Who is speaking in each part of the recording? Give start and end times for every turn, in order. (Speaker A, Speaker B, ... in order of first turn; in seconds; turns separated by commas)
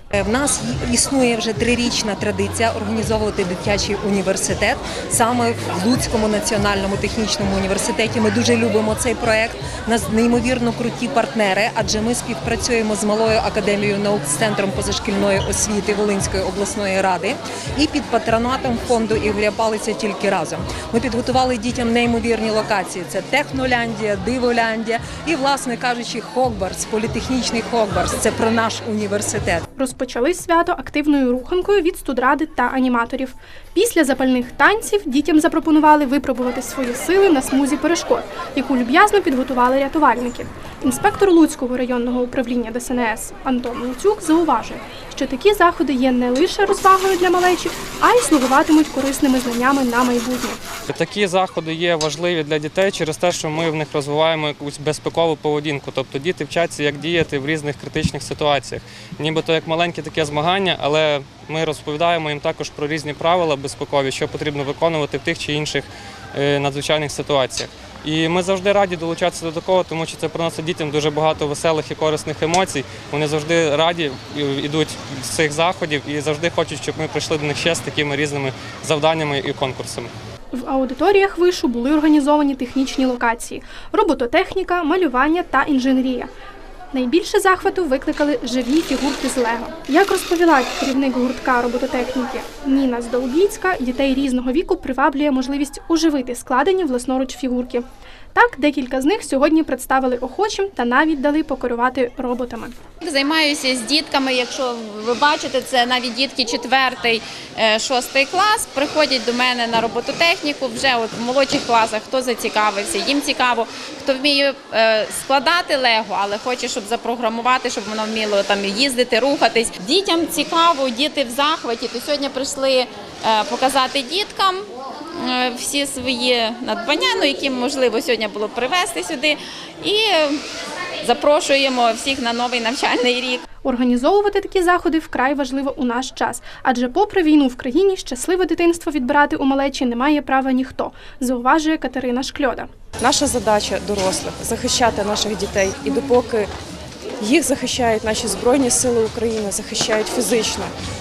Speaker A: 0.2-29.6, Speaker B: 29.8-50.6, Speaker C: 50.9-80.1, Speaker B: 80.5-86.3, Speaker B: 86.9-102.7, Speaker D: 103.0-124.7, Speaker D: 125.2-130.4, Speaker D: 131.0-133.4, Speaker B: 133.6-142.7, Speaker E: 143.0-146.5, Speaker E: 147.2-150.8